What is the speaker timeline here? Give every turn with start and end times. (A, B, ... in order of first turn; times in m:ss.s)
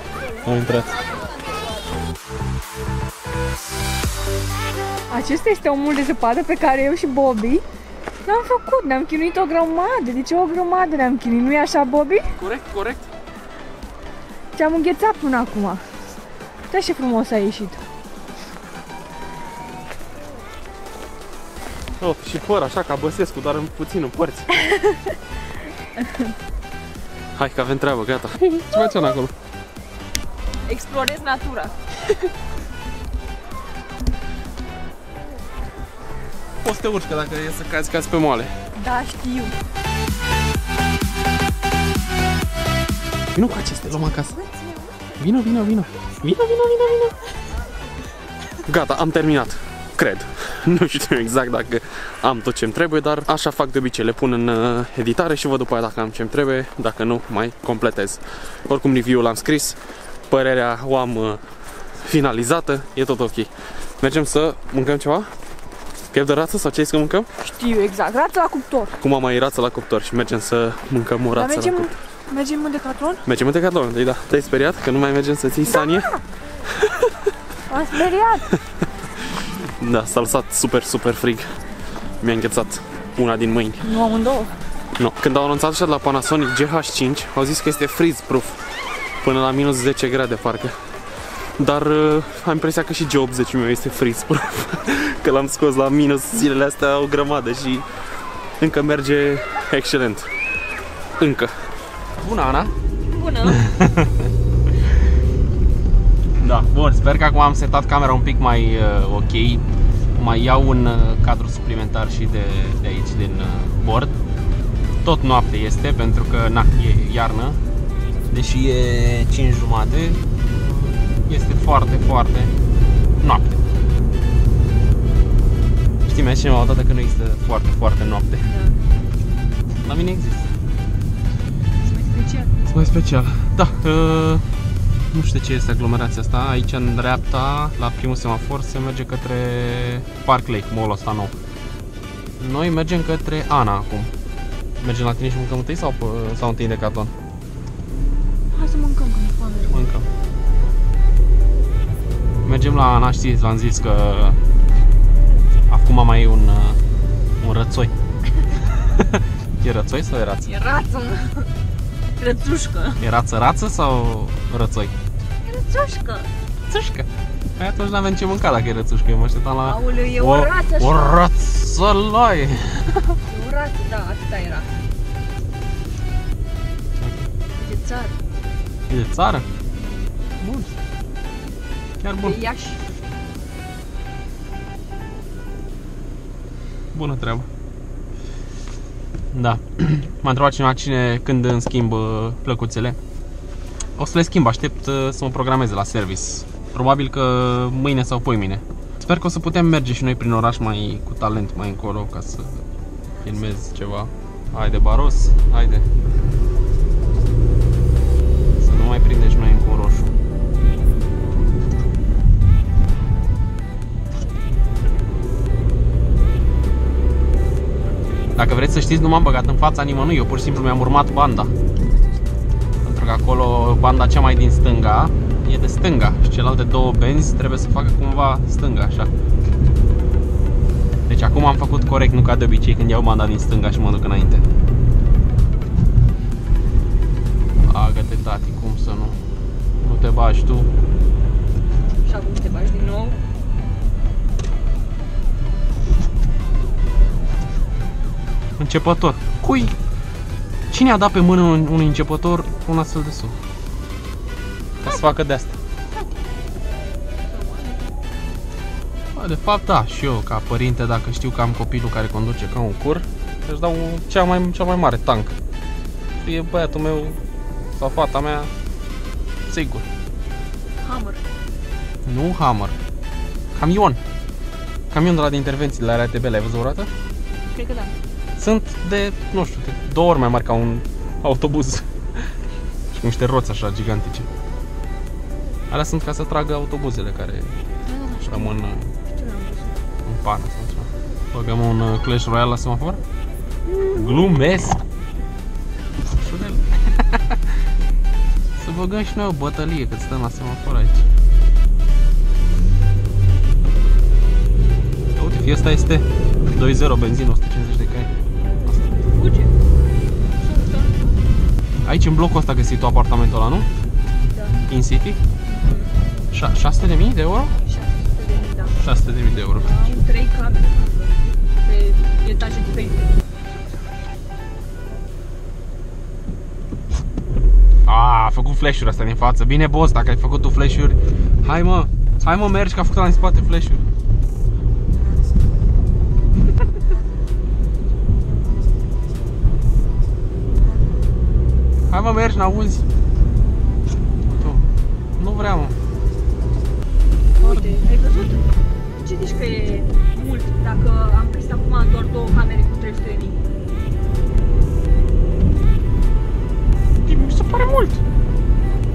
0:00.4-0:01.0 A
0:05.1-0:07.6 B
0:08.2-0:12.3 B
0:12.3-0:13.1 A
0:14.5-0:15.9 B
0:16.7-0:17.8 B
0:22.0-0:24.6 A
0:27.4-0:29.3 A
0:30.7-0:31.8 C
0:36.6-0:38.5 A
0:38.8-0:39.5 C
0:38.9-0:39.4 B
0:43.4-0:44.4 A
0:45.2-0:47.2 A
0:48.6-0:59.8 A
1:00.3-1:01.4 A
1:02.0-1:05.3 A
1:06.1-1:07.3 A
1:07.4-1:08.9 B
1:09.0-1:12.0 A
1:11.4-1:13.2 B
1:13.2-1:16.2 A
1:16.8-1:17.1 A
1:17.7-1:18.5 B
1:19.8-1:21.5 A
1:22.2-1:23.9 A
1:23.8-1:24.6 B
1:25.0-1:28.6 A
1:29.2-1:30.8 A
1:31.6-1:37.9 A
1:38.6-1:40.3 A
1:41.2-1:42.7 A
1:43.1-1:43.6 C
1:43.4-1:44.2 A
1:46.4-1:54.2 A
1:55.0-1:57.6 A
1:58.3-2:02.5 A
2:03.2-2:03.6 A
2:06.1-2:08.5 A
2:08.4-2:08.8 C
2:09.8-2:10.5 A
2:11.8-2:12.5 C
2:12.7-2:14.5 A
2:15.1-2:21.3 A
2:22.4-2:24.1 A
2:24.8-2:27.1 A
2:28.5-2:29.8 C
2:29.7-2:30.1 A
2:32.4-2:34.4 A
2:35.7-2:36.8 A
2:37.4-2:37.9 A
2:38.8-2:39.1 A
2:39.6-2:40.5 A
2:40.4-2:41.5 C
2:42.2-2:43.0 C
2:43.0-2:44.9 A
2:45.4-2:46.3 C
2:46.7-2:53.2 A
2:49.6-2:51.2 C
2:53.2-2:54.7 C
2:57.0-2:57.3 A
2:57.5-2:58.2 C
2:58.9-2:59.5 A
3:00.4-3:00.7 A
3:02.0-3:02.4 A
3:02.2-3:02.9 C
3:06.9-3:07.5 A
3:09.3-3:13.0 A
3:14.0-3:22.6 A
3:23.2-3:25.9 A
3:28.6-3:30.1 A
3:38.4-3:41.5 A
3:42.8-3:49.1 A
3:51.1-3:54.4 A
3:57.6-3:59.2 A
3:59.8-4:00.7 A
4:02.0-4:03.2 C
4:08.6-4:09.7 A
4:10.7-4:13.4 A
4:14.8-4:15.6 A
4:17.3-4:17.8 C
4:19.1-4:25.3 A
4:26.2-4:27.2 A
4:27.8-4:28.5 A
4:29.5-4:29.8 A
4:30.8-4:31.2 C
4:32.1-4:32.8 A
4:33.5-4:34.0 A
4:34.9-4:36.9 A
4:37.5-4:37.9 C
4:38.4-4:42.3 A
4:42.9-4:44.3 A
4:45.7-4:47.6 A
4:47.9-4:49.8 C
4:48.2-4:48.9 A
4:50.1-4:53.0 A
4:53.7-4:54.0 C
4:53.9-4:54.8 A
4:56.1-4:57.6 A
4:58.6-5:01.1 A
5:05.2-5:08.1 A
5:09.1-5:09.6 C
5:10.4-5:11.2 C
5:11.8-5:13.7 A
5:14.3-5:14.6 C
5:14.7-5:15.2 A
5:15.5-5:16.0 C
5:16.3-5:17.6 A
5:17.6-5:18.8 C
5:18.8-5:20.0 A
5:19.5-5:23.2 C
5:27.8-5:33.8 A
5:41.9-5:42.8 A
5:44.3-5:45.8 A
5:47.4-5:53.4 C
5:47.4-5:47.7 A
5:57.1-5:58.0 A